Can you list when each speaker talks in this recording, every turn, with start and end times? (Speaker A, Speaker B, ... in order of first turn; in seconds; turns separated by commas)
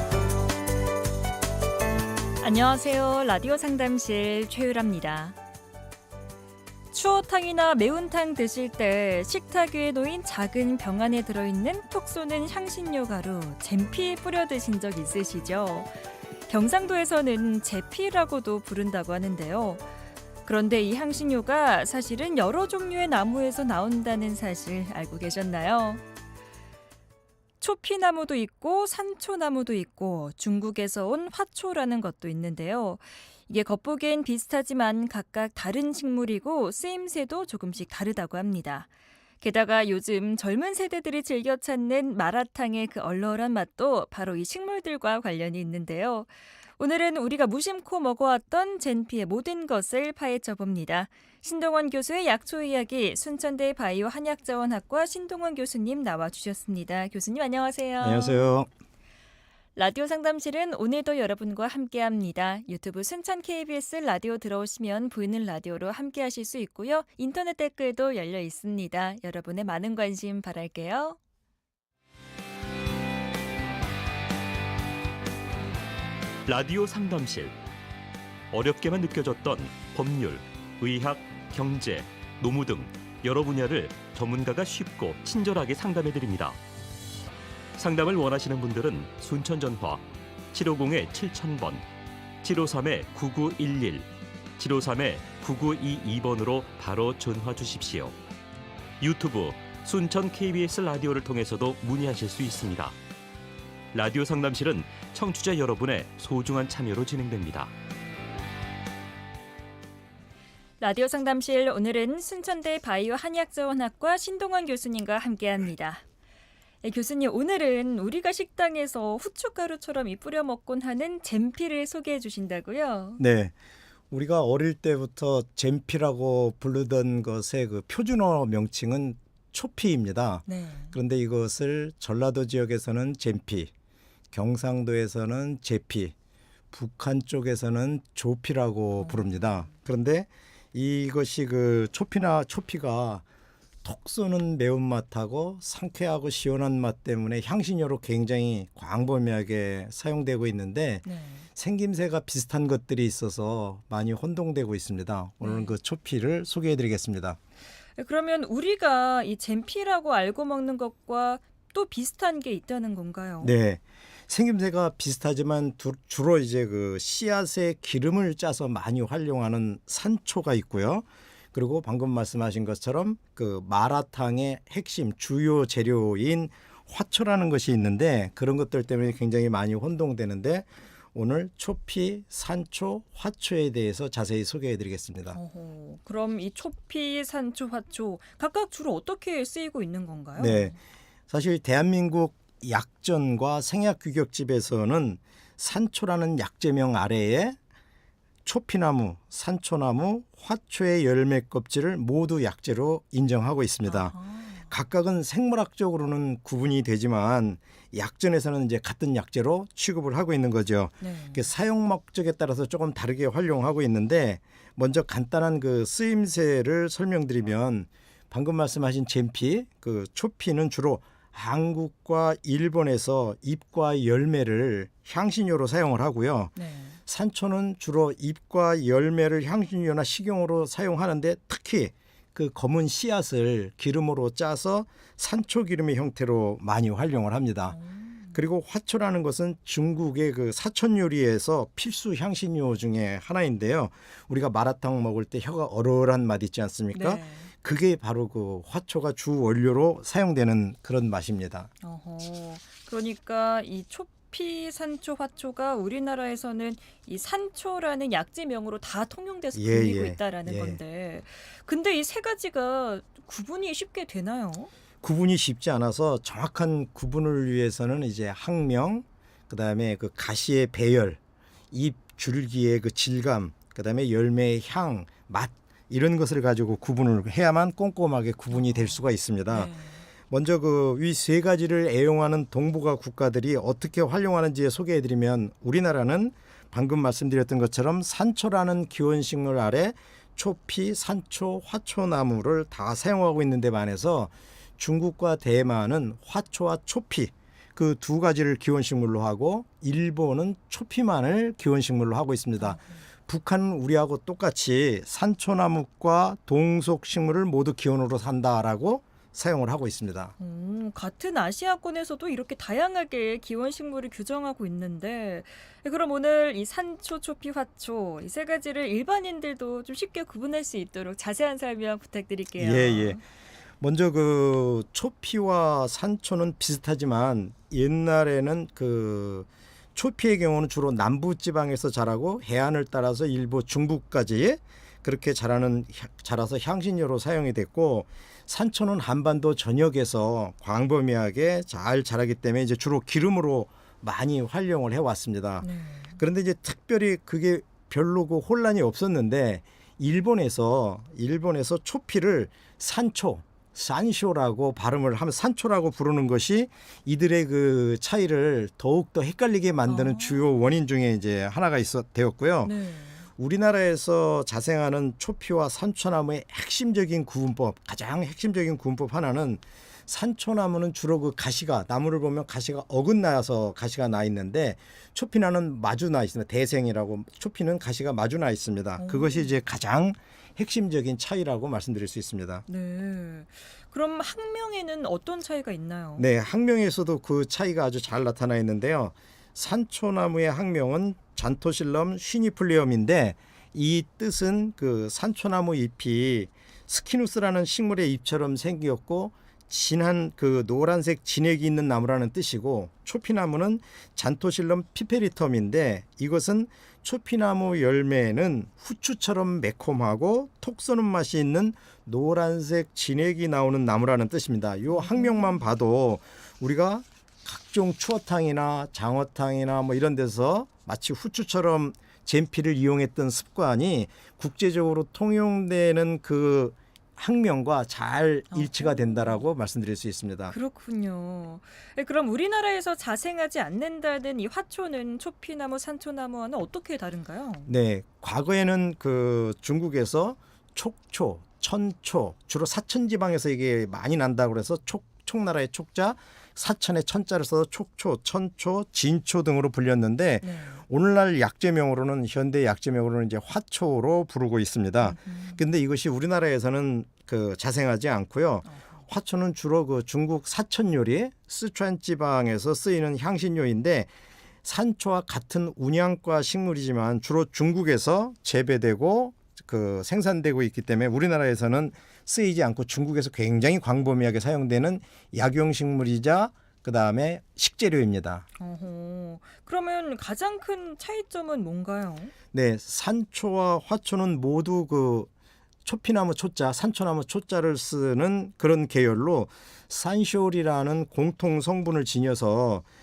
Speaker A: 2.4-5.4, Speaker A: 6.9-15.9, Speaker A: 16.5-19.8, Speaker A: 20.4-26.0, Speaker A: 27.6-38.9, Speaker A: 39.4-58.5, Speaker B: 58.0-58.7, Speaker A: 59.8-71.2, Speaker C: 76.5-77.5, Speaker C: 78.5-86.6, Speaker C: 87.8-91.8, Speaker C: 92.4-98.2, Speaker C: 99.0-103.0, Speaker C: 103.9-107.7, Speaker A: 110.8-116.0, Speaker A: 116.8-123.2, Speaker B: 123.2-123.5, Speaker B: 124.1-133.7, Speaker A: 130.5-130.9, Speaker B: 134.3-136.1, Speaker B: 136.7-143.2, Speaker A: 139.0-139.5, Speaker B: 143.8-151.0, Speaker A: 151.0-151.5, Speaker B: 151.6-157.4, Speaker A: 155.4-155.7, Speaker A: 157.9-163.5, Speaker B: 163.4-185.4, Speaker A: 185.3-190.8, Speaker B: 190.4-190.7, Speaker B: 191.3-197.6, Speaker B: 198.4-204.1, Speaker A: 203.8-204.7, Speaker B: 204.7-237.8, Speaker A: 211.0-211.5, Speaker A: 226.6-227.0, Speaker A: 237.7-238.4, Speaker B: 238.3-251.7, Speaker A: 246.9-247.5, Speaker A: 251.8-264.7, Speaker B: 259.6-260.8, Speaker B: 265.0-271.2, Speaker B: 271.7-279.7, Speaker A: 278.5-280.0, Speaker B: 280.3-310.3, Speaker A: 302.6-303.0, Speaker A: 310.4-323.2, Speaker B: 322.6-323.2, Speaker B: 323.8-345.7, Speaker A: 345.6-346.2, Speaker B: 346.2-362.7, Speaker A: 359.9-360.5, Speaker A: 362.6-363.3, Speaker B: 363.4-382.6, Speaker A: 379.0-379.5, Speaker A: 382.7-386.3, Speaker B: 386.2-430.5, Speaker A: 414.9-415.7, Speaker A: 428.5-429.4, Speaker A: 430.5-437.7, Speaker B: 437.7-464.1, Speaker A: 450.4-450.8, Speaker A: 455.0-455.6, Speaker A: 458.6-459.0, Speaker B: 464.6-478.4, Speaker A: 478.6-482.3, Speaker B: 482.5-485.3, Speaker B: 485.8-492.8